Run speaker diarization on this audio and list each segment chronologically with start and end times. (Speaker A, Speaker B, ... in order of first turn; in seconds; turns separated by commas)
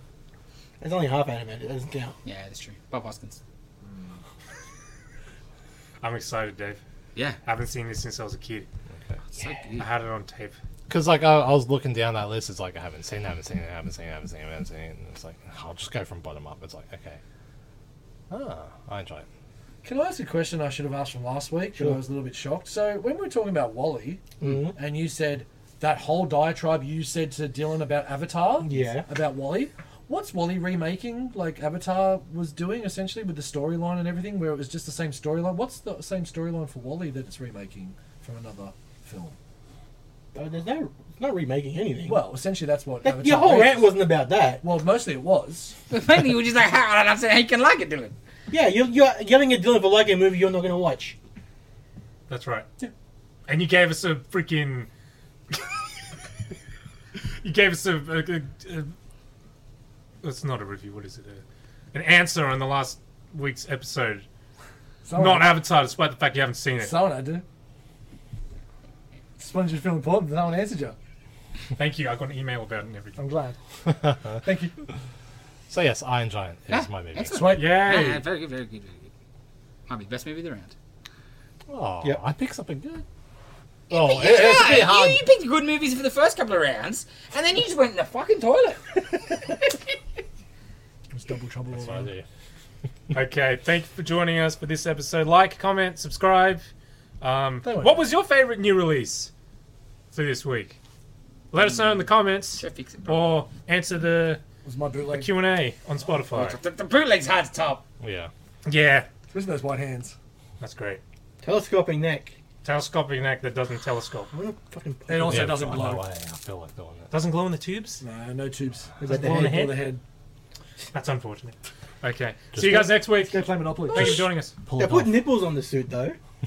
Speaker A: 0.8-2.2, Speaker B: 2.2-3.4, Speaker C: 3.8-4.1, Speaker D: 6.0-6.8, Speaker D: 7.4-8.7, Speaker B: 9.3-9.9, Speaker D: 9.8-10.6, Speaker E: 10.9-17.2, Speaker E: 18.3-19.2, Speaker C: 19.8-39.4, Speaker A: 21.8-22.0, Speaker A: 24.4-24.8, Speaker A: 28.6-29.1, Speaker A: 40.3-42.2, Speaker C: 42.0-43.9, Speaker A: 43.0-44.6, Speaker C: 44.6-45.7, Speaker B: 45.9-48.1, Speaker A: 48.5-51.1, Speaker D: 52.3-52.7, Speaker D: 53.5-54.9, Speaker D: 57.2-58.9, Speaker D: 60.2-64.2, Speaker C: 65.0-65.6, Speaker D: 65.1-67.0, Speaker C: 66.8-67.4, Speaker C: 69.4-71.0, Speaker D: 71.8-73.2, Speaker C: 73.2-73.6, Speaker E: 73.8-74.4, Speaker C: 74.4-74.8, Speaker E: 75.7-77.5, Speaker B: 76.7-79.1, Speaker C: 77.3-78.2, Speaker D: 77.5-78.2, Speaker B: 79.9-80.7, Speaker E: 81.7-83.0, Speaker E: 83.9-85.2, Speaker B: 83.9-89.5, Speaker C: 91.1-92.1, Speaker E: 91.7-92.2, Speaker D: 93.1-96.7, Speaker D: 97.2-99.3, Speaker C: 97.6-98.1, Speaker D: 100.1-100.8, Speaker D: 101.5-104.4, Speaker B: 102.6-103.3, Speaker C: 104.6-105.3, Speaker D: 105.1-106.6, Speaker B: 106.3-107.8, Speaker E: 108.0-108.3, Speaker D: 108.6-109.1, Speaker C: 109.3-110.2, Speaker D: 110.6-111.0, Speaker A: 111.4-112.3, Speaker D: 112.6-114.3, Speaker A: 114.3-115.8, Speaker C: 115.1-116.1, Speaker E: 115.2-117.1, Speaker D: 117.1-118.0, Speaker C: 118.0-120.0, Speaker A: 119.0-119.7, Speaker D: 119.0-119.9, Speaker D: 120.9-124.5, Speaker C: 122.6-124.3, Speaker E: 123.9-125.2, Speaker A: 124.7-126.2